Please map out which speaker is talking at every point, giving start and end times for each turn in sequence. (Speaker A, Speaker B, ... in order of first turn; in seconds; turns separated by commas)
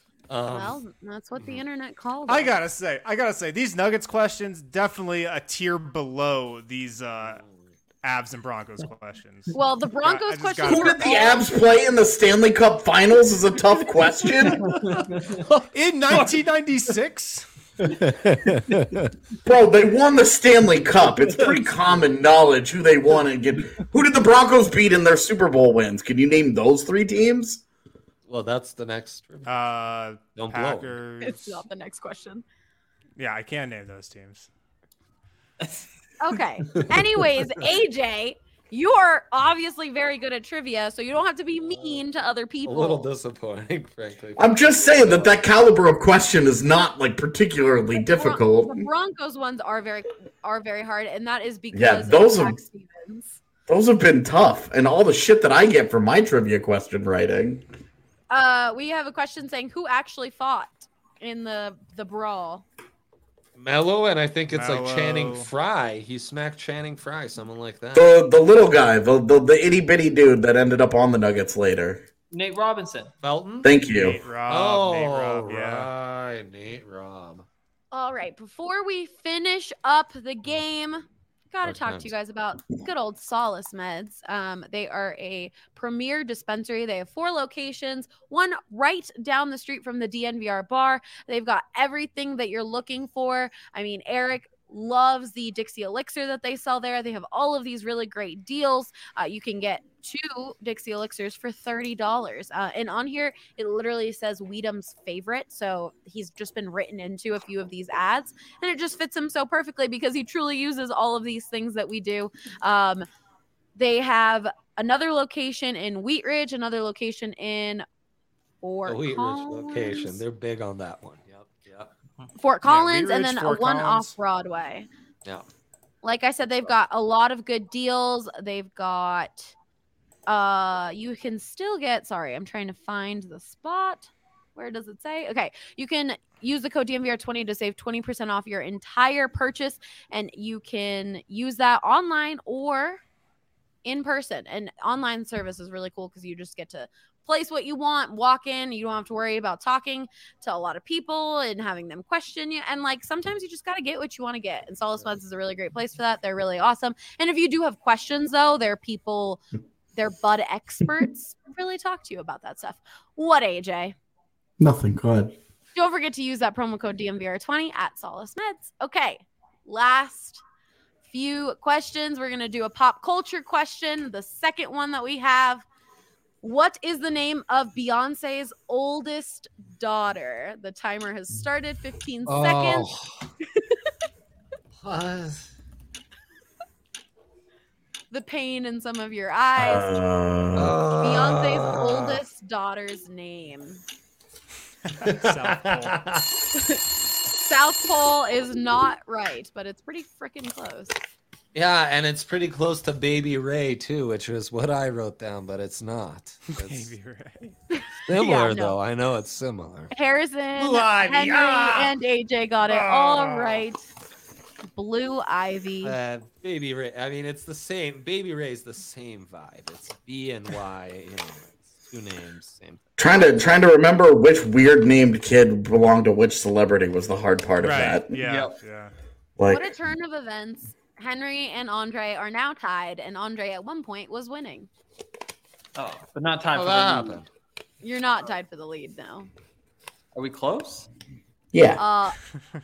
Speaker A: 0.3-0.8, Speaker B: 0.5-2.6, Speaker A: 1.4-1.6, Speaker C: 2.3-7.4, Speaker A: 7.2-7.7, Speaker C: 8.0-11.1, Speaker B: 9.5-11.5, Speaker D: 10.6-14.8, Speaker A: 14.5-16.3, Speaker E: 14.6-15.4, Speaker C: 15.7-17.5, Speaker A: 17.8-19.1, Speaker D: 19.4-27.6, Speaker A: 28.3-29.5, Speaker C: 29.4-31.6, Speaker A: 30.4-31.0, Speaker B: 31.2-32.4, Speaker C: 33.1-34.5, Speaker B: 36.2-43.1, Speaker A: 36.7-37.2, Speaker A: 41.7-42.0, Speaker A: 42.6-45.4, Speaker D: 44.4-48.9, Speaker B: 47.9-53.4, Speaker D: 51.7-52.6, Speaker D: 53.7-57.6, Speaker B: 58.3-62.6, Speaker A: 63.6-68.1, Speaker C: 64.5-65.5, Speaker D: 67.9-72.0, Speaker E: 72.3-73.1, Speaker A: 73.2-73.8, Speaker D: 73.6-74.2, Speaker C: 73.9-75.9, Speaker A: 74.5-77.5, Speaker B: 77.9-113.0, Speaker A: 81.6-82.1, Speaker B: 113.8-117.8, Speaker B: 118.6-120.2, Speaker A: 118.8-121.9, Speaker B: 122.4-124.9, Speaker C: 122.6-124.1, Speaker B: 126.0-129.5, Speaker B: 130.3-143.0, Speaker B: 143.8-159.4, Speaker B: 159.9-163.9, Speaker D: 164.6-165.4, Speaker B: 165.7-170.4, Speaker B: 171.1-175.6, Speaker B: 176.4-182.9, Speaker A: 182.3-183.3, Speaker A: 184.8-185.5, Speaker B: 188.1-190.0, Speaker D: 189.6-190.8, Speaker A: 190.6-192.2, Speaker B: 191.0-193.8, Speaker C: 194.9-196.0, Speaker A: 195.1-196.3, Speaker B: 196.6-201.0, Speaker A: 201.5-206.9, Speaker C: 206.5-207.5, Speaker B: 207.7-208.8, Speaker A: 208.1-209.9, Speaker B: 209.9-213.8, Speaker A: 210.6-211.9, Speaker A: 212.7-213.6, Speaker B: 214.7-215.9, Speaker A: 215.8-222.8, Speaker D: 223.0-228.2, Speaker C: 227.6-228.9, Speaker E: 228.3-228.6, Speaker D: 229.4-229.7, Speaker B: 229.5-234.7, Speaker E: 235.8-237.2, Speaker A: 236.5-237.3, Speaker B: 237.8-239.3, Speaker E: 240.1-240.9, Speaker D: 241.5-241.8, Speaker B: 241.8-242.2